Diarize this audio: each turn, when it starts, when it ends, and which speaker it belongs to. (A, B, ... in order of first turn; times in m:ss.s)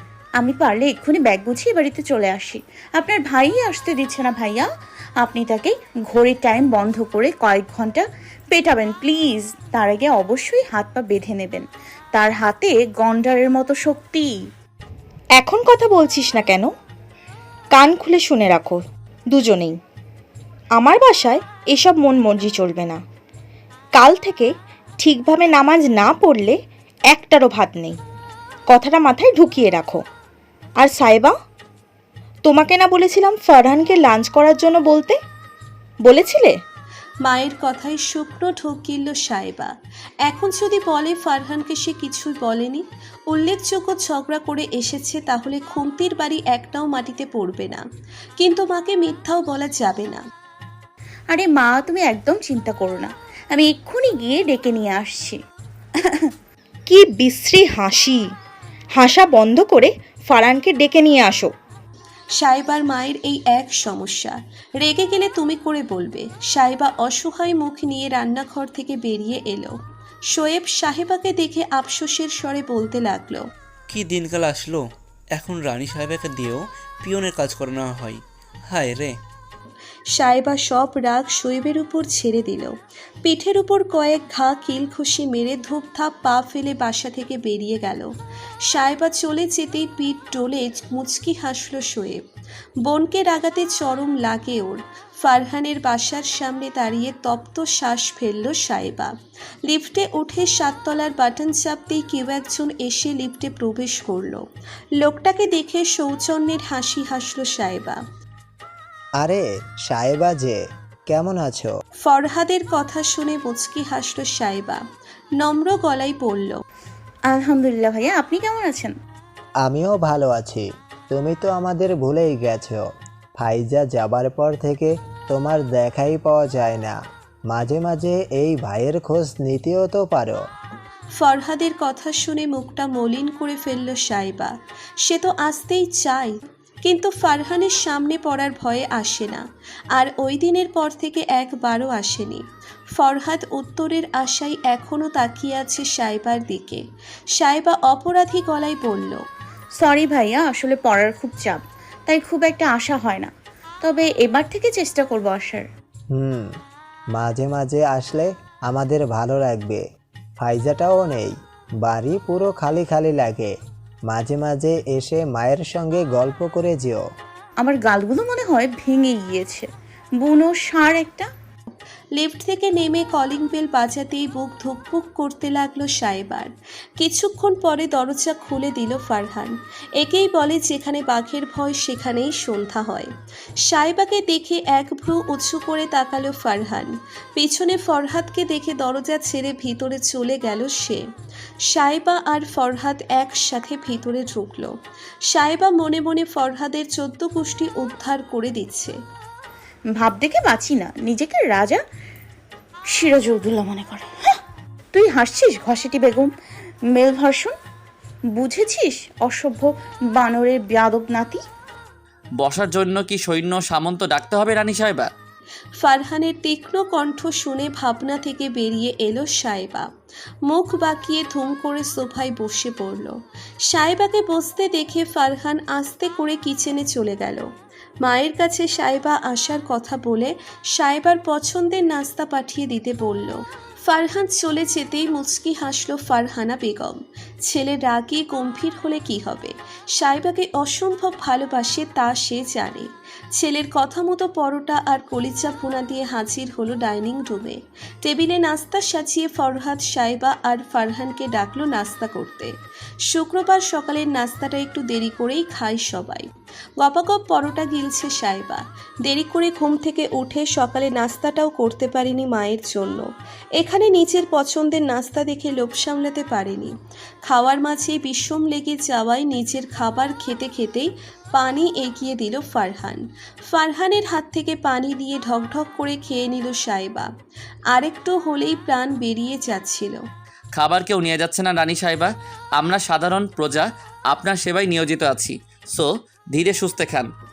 0:00.4-0:04.7 A
0:05.2-0:14.4 A
0:15.4-0:16.7 B
0:17.8-0:19.8 B
0:20.8-0:23.0 B
0:24.0-0:26.6 B
0:27.1-0:28.0 B
0:28.7-0:30.0 B
0:30.8-0:31.3 B
0:32.4-0:35.2 B
0:36.0-0:36.6 B
0:37.2-0:39.7 C
0:40.3-0:47.8 C
0:48.4-0:50.2 C
0:51.3-0:55.4 A
0:56.9-0:58.2 B
0:59.0-1:01.5 B
1:02.4-1:09.7 C
1:10.3-1:13.4 C
1:13.9-1:14.8 D
1:15.4-1:18.2 D
1:18.7-1:19.1 D
1:20.1-1:22.7 C
1:23.2-1:28.1 C
1:28.7-1:32.2 C
1:32.8-1:39.1 C
1:39.7-1:44.4 C
1:45.0-1:48.0 C
1:49.2-1:51.7 E
1:52.0-1:54.8 C
1:55.4-1:56.6 C
1:57.3-1:59.0 A
1:59.6-2:02.8 E
2:03.4-2:07.0 E
2:07.5-2:10.4 E
2:11.1-2:19.4 C
2:20.0-2:22.4 C
2:23.0-2:26.8 C
2:27.4-2:29.2 C
2:29.8-2:35.7 A
2:36.1-2:36.5 E
2:37.2-2:39.8 E
2:40.4-2:43.5 E
2:44.1-2:47.0 E
2:47.6-2:51.3 A
2:52.2-3:03.1 C
3:03.6-3:11.0 C
3:11.7-3:14.7 C
3:15.3-3:19.0 C
3:20.0-3:21.8 A
3:22.9-3:24.4 A
3:24.9-3:26.3 A
3:26.9-3:27.6 A
3:28.3-3:31.4 A
3:32.4-3:35.1 F
3:35.8-3:39.9 C
3:40.5-3:43.2 C
3:43.7-3:47.5 C
3:48.0-3:53.4 C
3:53.9-4:12.5 C
4:13.1-4:16.3 C
4:16.8-4:26.7 C
4:27.2-4:37.1 C
4:37.7-4:40.0 C
4:40.6-4:47.1 F